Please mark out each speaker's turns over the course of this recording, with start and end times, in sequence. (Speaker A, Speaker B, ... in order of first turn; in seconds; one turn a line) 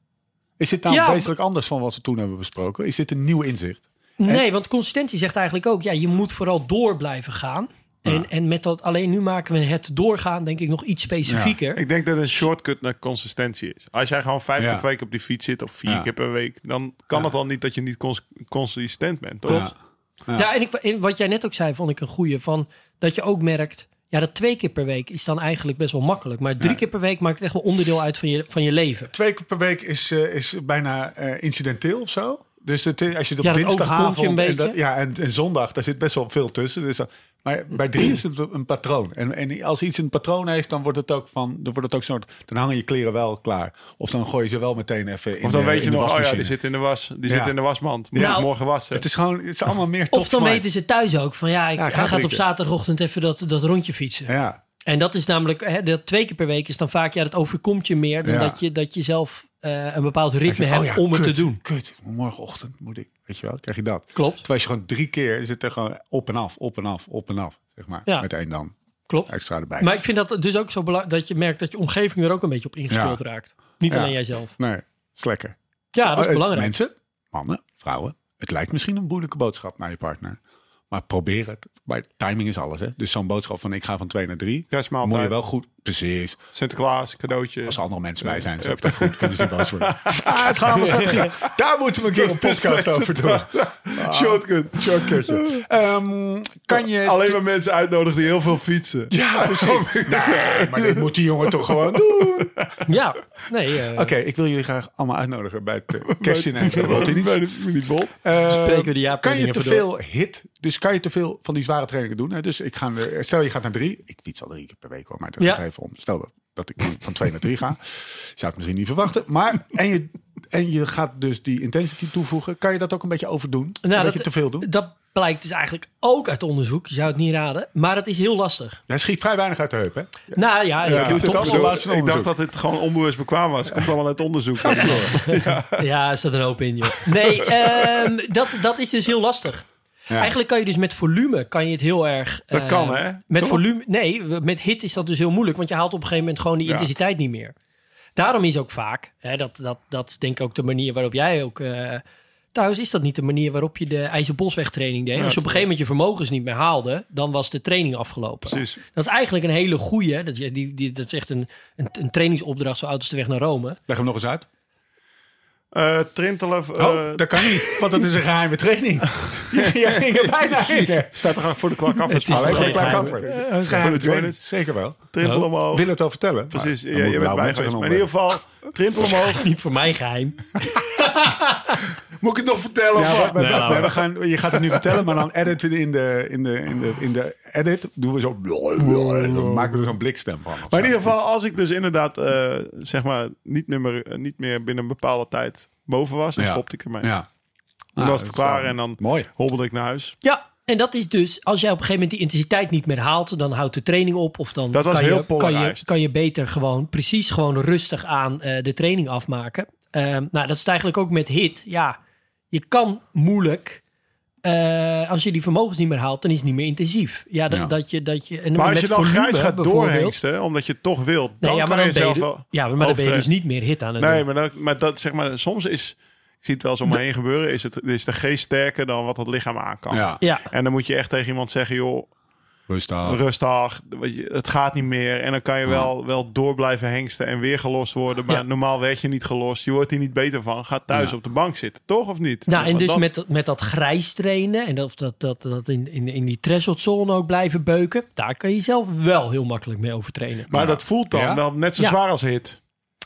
Speaker A: 0.6-4.4
Speaker B: 0.9-1.3
Speaker B: 4.2-11.8
Speaker A: 11.3-11.6
Speaker C: 11.7-19.7
Speaker A: 14.6-14.8
Speaker A: 19.5-19.7
Speaker B: 20.3-29.1
Speaker A: 29.1-46.5
Speaker B: 33.4-34.8
Speaker C: 45.4-49.0
Speaker A: 47.3-47.5
Speaker A: 48.1-50.6
Speaker B: 48.2-48.5
Speaker B: 50.1-54.3
Speaker A: 51.8-52.4
Speaker A: 54.3-54.6
Speaker B: 54.9-61.6
Speaker A: 58.2-58.6
Speaker A: 60.5-68.7
Speaker B: 64.1-64.4
Speaker B: 69.1-74.5
Speaker A: 69.3-69.9
Speaker A: 72.9-73.2
Speaker A: 73.9-80.4
Speaker B: 75.9-76.7
Speaker A: 80.9-86.4
Speaker C: 84.7-85.3
Speaker C: 86.5-91.5
Speaker A: 87.7-97.4
Speaker C: 92.1-95.6
Speaker C: 96.7-102.8
Speaker A: 99.1-102.5
Speaker B: 102.8-104.1
Speaker A: 103.9-107.5
Speaker C: 106.1-108.2
Speaker A: 108.2-124.7
Speaker B: 108.4-109.8
Speaker B: 123.8-128.8
Speaker A: 128.9-132.3
Speaker B: 130.3-131.8
Speaker C: 130.9-135.8
Speaker A: 134.6-135.2
Speaker B: 134.7-147.5
Speaker C: 142.5-143.6
Speaker B: 148.2-152.0
Speaker B: 152.5-163.8
Speaker C: 155.2-155.6
Speaker C: 158.5-158.8
Speaker A: 163.9-164.4
Speaker C: 165.7-167.8
Speaker A: 166.8-171.6
Speaker C: 169.5-174.4
Speaker B: 172.1-173.9
Speaker A: 172.2-178.1
Speaker C: 175.1-175.9
Speaker C: 176.5-179.5
Speaker B: 179.0-181.9
Speaker C: 182.2-184.0
Speaker A: 182.9-191.1
Speaker B: 183.3-184.0
Speaker C: 188.8-189.9
Speaker C: 190.7-197.1
Speaker A: 196.4-197.3
Speaker A: 197.9-199.3
Speaker C: 198.0-200.2
Speaker B: 200.2-212.0
Speaker C: 204.7-205.8
Speaker B: 212.5-213.8
Speaker B: 214.4-220.2
Speaker C: 218.5-223.3
Speaker B: 221.4-224.2
Speaker C: 224.0-232.1
Speaker A: 229.9-230.2
Speaker B: 230.2-230.4
Speaker A: 232.7-233.2
Speaker C: 233.0-243.0
Speaker B: 242.5-250.5
Speaker C: 250.5-252.6
Speaker A: 250.5-251.4